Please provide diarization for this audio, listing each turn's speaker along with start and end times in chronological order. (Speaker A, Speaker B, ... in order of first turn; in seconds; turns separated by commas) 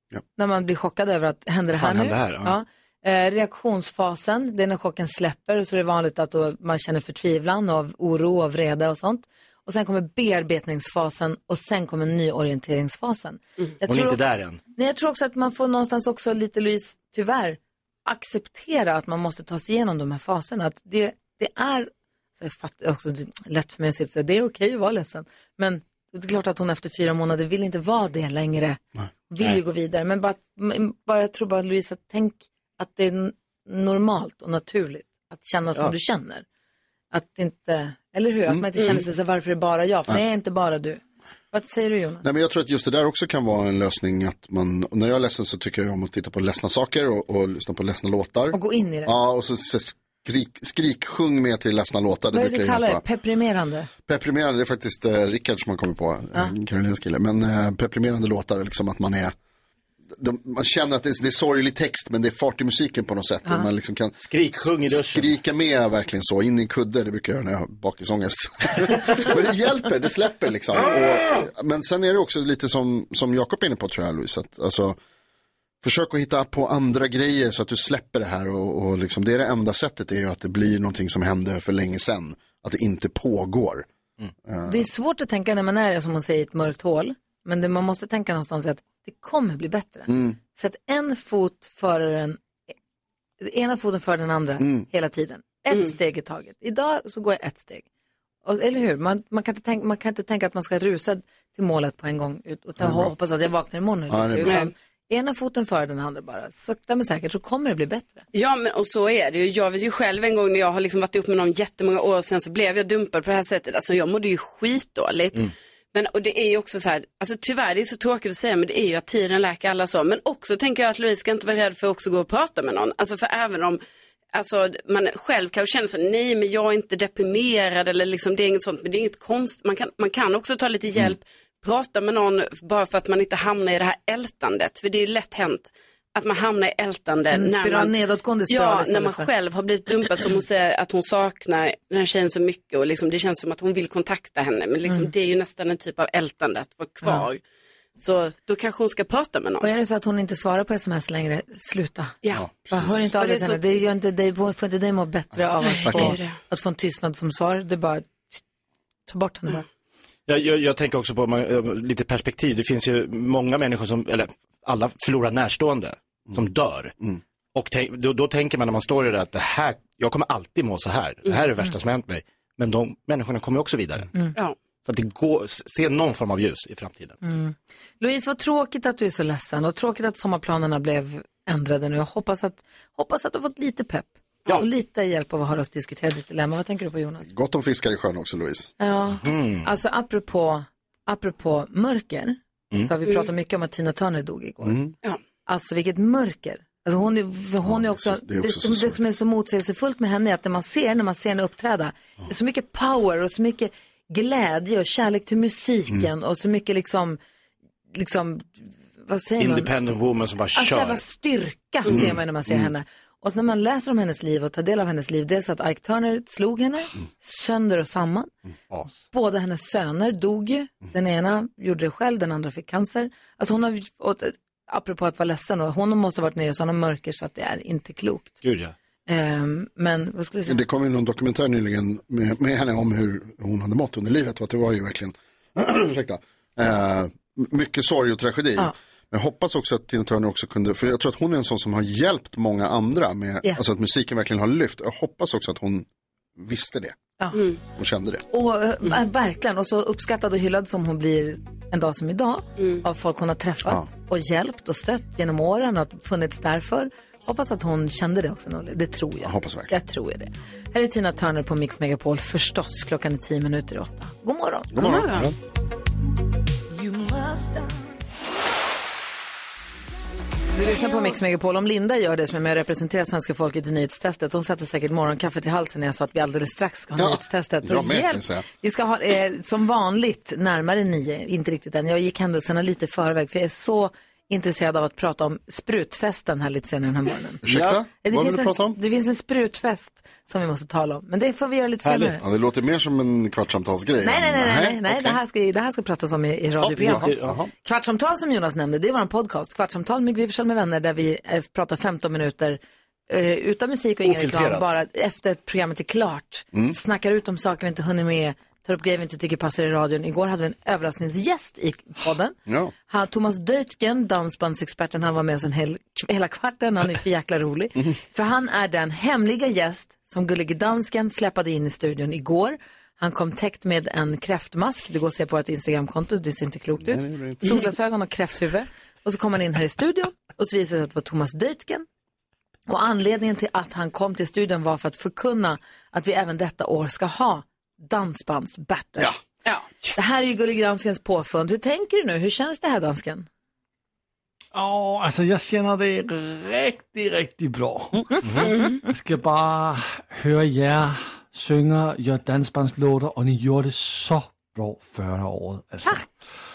Speaker A: 0.4-36.5, Speaker B: 1.7-2.6, Speaker B: 13.9-14.6, Speaker A: 37.1-42.3, Speaker C: 42.2-53.0, Speaker A: 48.5-49.1, Speaker A: 52.3-53.9, Speaker C: 54.1-59.3, Speaker C: 60.1-75.0, Speaker B: 64.2-65.3, Speaker C: 75.8-83.9, Speaker C: 84.5-84.9, Speaker A: 84.7-92.4, Speaker C: 90.1-90.4, Speaker A: 93.4-97.9, Speaker C: 94.6-94.8, Speaker A: 98.5-108.2, Speaker C: 102.8-103.1, Speaker C: 104.1-104.6, Speaker D: 104.5-104.7, Speaker D: 108.3-123.8, Speaker D: 124.3-137.9, Speaker A: 137.3-139.3, Speaker D: 138.5-147.4, Speaker D: 148.0-149.7, Speaker A: 149.6-152.2, Speaker C: 152.3-153.1, Speaker A: 152.7-158.4, Speaker D: 153.2-153.6, Speaker D: 155.6-156.4, Speaker C: 155.8-156.2, Speaker A: 159.1-159.7, Speaker B: 160.3-166.9, Speaker B: 167.5-174.1, Speaker B: 174.8-177.2, Speaker A: 177.2-187.3, Speaker C: 187.3-188.7, Speaker A: 188.8-194.8, Speaker B: 189.2-189.7, Speaker C: 194.6-194.9, Speaker A: 195.5-207.2, Speaker C: 197.6-199.0, Speaker A: 207.9-209.7, Speaker B: 209.4-211.0, Speaker A: 210.5-218.3, Speaker A: 218.9-228.4, Speaker B: 228.4-228.8, Speaker A: 229.1-230.6, Speaker C: 230.5-245.9, Speaker C: 246.4-247.0, Speaker C: 247.8-248.2, Speaker A: 248.3-265.0, Speaker C: 259.2-259.7, Speaker C: 264.7-265.4, Speaker D: 264.8-265.3, Speaker A: 270.5-292.2, Speaker C: 277.0-278.4, Speaker C: 287.4-288.8, Speaker B: 287.5-287.7, Speaker B: 291.8-292.2, Speaker C: 292.2-295.2, Speaker A: 294.0-297.1, Speaker B: 296.6-297.4, Speaker C: 296.8-297.5, Speaker A: 297.6-312.4, Speaker B: 304.0-304.7, Speaker C: 312.5-312.7, Speaker A: 312.9-331.9, Speaker C: 326.9-327.4, Speaker A: 332.7-339.1, Speaker D: 339.4-339.9, Speaker A: 339.9-343.3, Speaker E: 344.5-356.2, Speaker B: 348.2-348.5, Speaker D: 348.5-348.8